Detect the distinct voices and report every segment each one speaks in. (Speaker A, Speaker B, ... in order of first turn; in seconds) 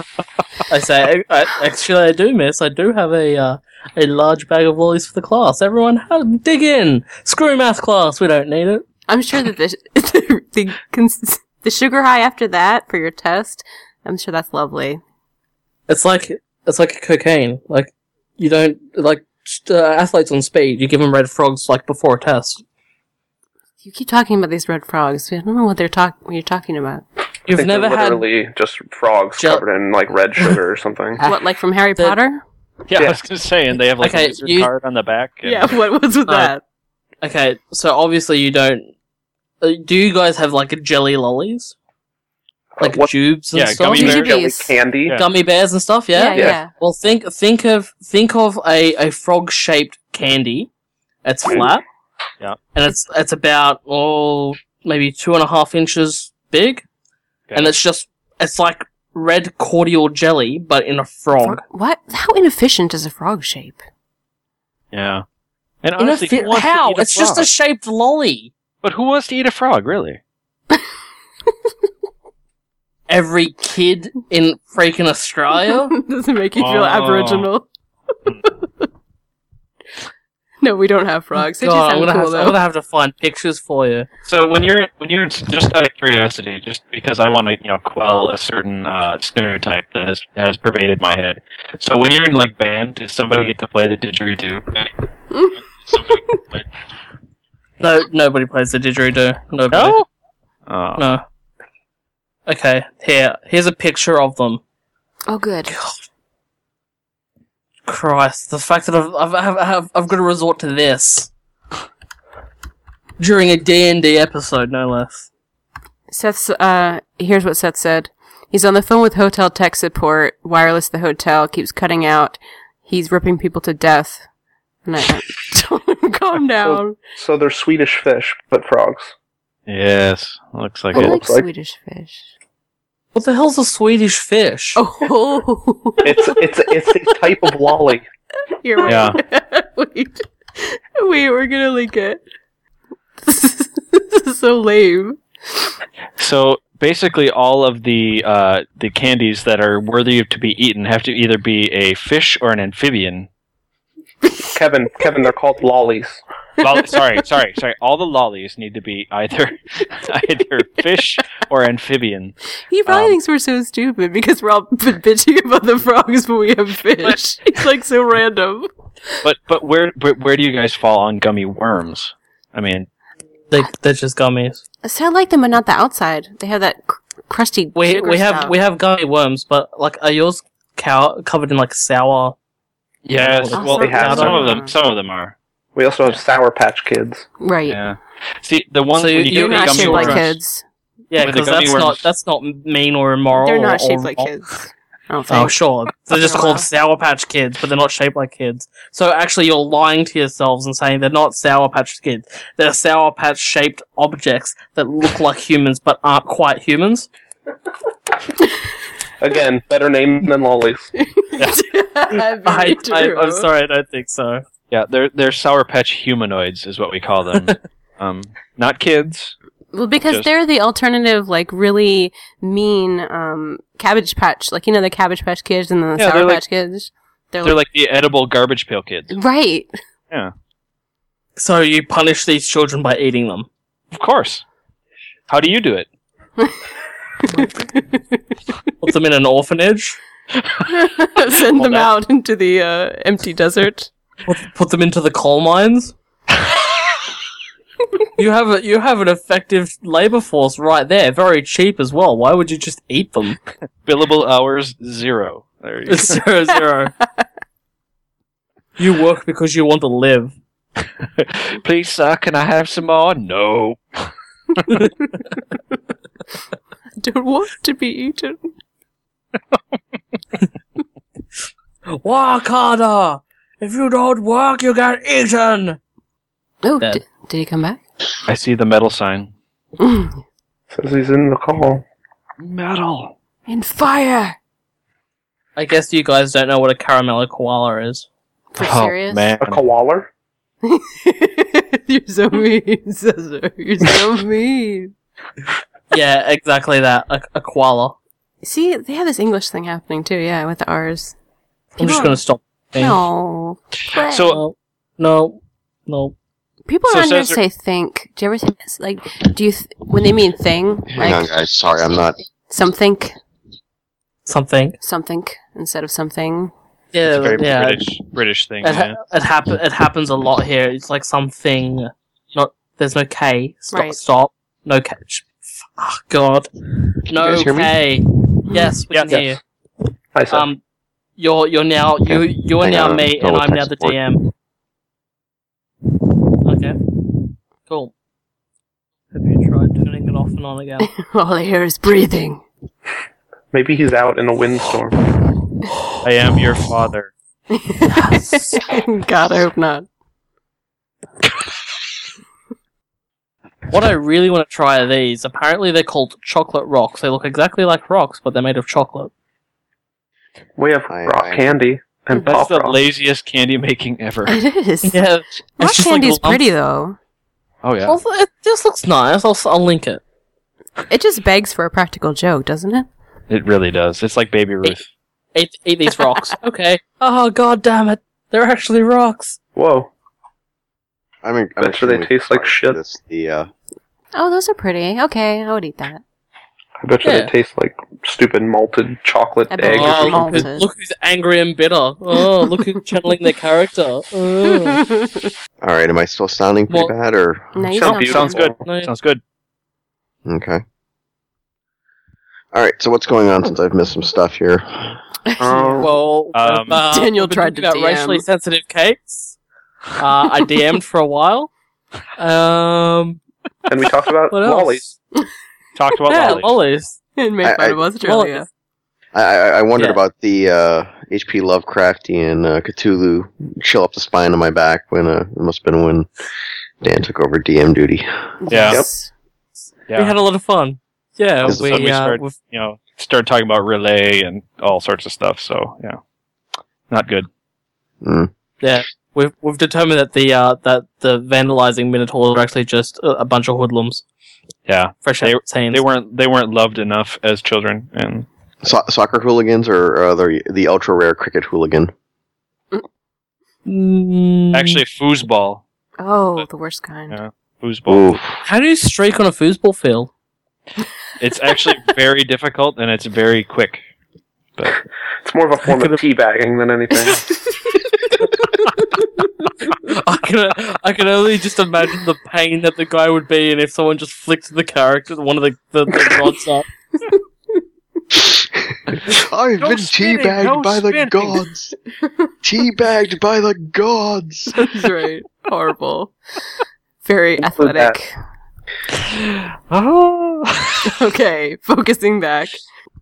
Speaker A: 0.7-8.8, 15.9-22.6, 27.5-28.2, 29.4-29.6, 34.0-34.7, 36.3-36.5, 37.2-38.9, 39.6-41.7, 42.8-44.2, 45.1-50.7, 51.2-51.8, 52.7-56.8, 57.5-61.6, 66.0-68.5, 73.1-75.9, 81.3-84.1, 97.8-100.0, 101.0-101.2, 102.5-104.6, 107.8-111.3, 113.2-115.3, 133.1-134.8, 173.5-174.6, 177.8-182.3, 183.2-184.5, 188.9-190.3, 191.1-194.3, 195.3-207.1, 212.4-214.4, 231.4-233.5, 238.8-240.0, 244.2-245.9, 248.2-253.4, 255.8-256.9, 258.8-260.3, 271.9-275.8, 285.5-288.1, 295.9-298.0, 301.8-303.0, 304.3-306.1, 314.2-314.8, 316.9-317.9, 318.6-329.4, 330.3-330.6, 331.2-334.3, 336.4-336.9, 337.6-337.9, 339.1-340.9, 347.9-348.6, 353.7-359.1, 364.8-366.4, 367.8-370.0, 375.3-379.4, 387.0-387.3, 389.7-394.9, 398.6-398.9, 405.8-409.4, 410.0-411.5, 412.2-413.2, 414.3-414.9, 416.1-417.0, 418.0-418.4, 429.9-432.4, 438.6-444.0, 445.0-445.8, 453.6-454.8, 458.4-460.1, 465.6-466.0, 469.8-476.7
Speaker B: 9.1-15.0, 23.8-27.0, 31.2-32.4, 35.4-36.6, 44.0-44.8, 46.1-46.7, 61.4-63.8, 75.6-77.7, 78.4-78.8, 80.6-82.6, 105.3-105.7, 116.1-124.3, 124.8-127.0, 130.9-132.3, 134.8-136.4, 138.6-142.2, 143.2-145.2, 154.2-154.5, 162.7-169.2, 174.8-178.5, 183.5-184.7, 187.4-187.8, 189.3-190.6, 193.3-195.6, 196.1-196.7, 211.0-213.5, 219.7-227.6, 229.1-229.7, 237.2-238.2, 240.7-243.9, 267.0-268.4, 276.6-277.8, 279.8-280.2, 283.5-284.4, 288.5-289.3, 290.6-294.9, 298.4-301.1, 301.8-302.2, 302.8-304.4, 306.6-311.3, 312.5-313.2, 314.8-316.5, 323.7-324.0, 328.5-328.7, 340.8-342.4, 347.5-349.9, 364.2-365.0, 365.6-367.0, 370.9-372.9, 384.1-386.0, 389.5-390.7, 394.8-395.1, 397.5-398.5, 405.2-405.9, 406.7-408.2, 417.1-418.5, 428.4-429.1, 456.0-457.2, 467.5-467.8, 476.9-477.2, 484.5-486.1, 487.0-488.1, 490.8-492.6
Speaker C: 27.5-31.2, 32.9-33.2, 42.8-43.1, 44.0-45.2, 126.7-129.1, 130.9-131.4, 136.0-138.1, 154.5-156.2, 183.8-184.4, 185.8-187.2, 209.2-210.9, 280.7-281.8, 289.4-290.1, 330.1-330.5, 343.5-344.9, 360.6-362.8, 379.6-379.9, 381.6-382.8, 386.8-390.4, 397.7-398.6, 405.4-405.9, 413.7-414.8, 465.2-467.3, 487.4-487.9
Speaker D: 32.9-35.7, 43.5-44.4, 64.9-65.2, 65.8-67.5, 68.8-70.2, 76.6-77.5, 84.2-95.0, 95.8-96.6, 99.7-100.0, 100.7-101.0, 129.7-131.2, 138.8-139.2, 146.2-153.3, 156.6-162.3, 162.9-163.2, 169.2-172.9, 183.1-185.3, 187.7-190.3, 191.2-192.0, 214.7-219.3, 226.0-226.4, 227.4-229.1, 233.9-234.4, 235.3-235.9, 241.5-241.9, 253.8-256.2, 261.0-264.9, 278.2-279.3, 282.4-283.1, 288.6-289.6, 303.9-304.4, 306.9-307.4, 317.1-319.0, 328.9-329.3, 346.0-347.1, 362.2-364.4, 367.6-368.0, 373.3-374.9, 397.8-399.2, 406.3-406.8, 415.7-416.5, 428.5-428.8, 431.4-436.0, 436.9-437.3, 444.7-448.2, 454.5-455.6, 457.1-458.2, 461.2-463.8, 479.6-481.4, 489.0-490.9
Speaker E: 310.9-312.1, 327.1-327.8, 332.1-334.0, 360.9-361.5, 381.2-383.5, 395.6-397.7, 400.2-400.6, 402.5-405.0, 417.4-417.8, 419.1-426.1, 426.8-428.3, 431.4-431.8, 438.0-438.3, 448.6-451.9, 457.9-458.4, 478.1-481.8, 482.4-484.8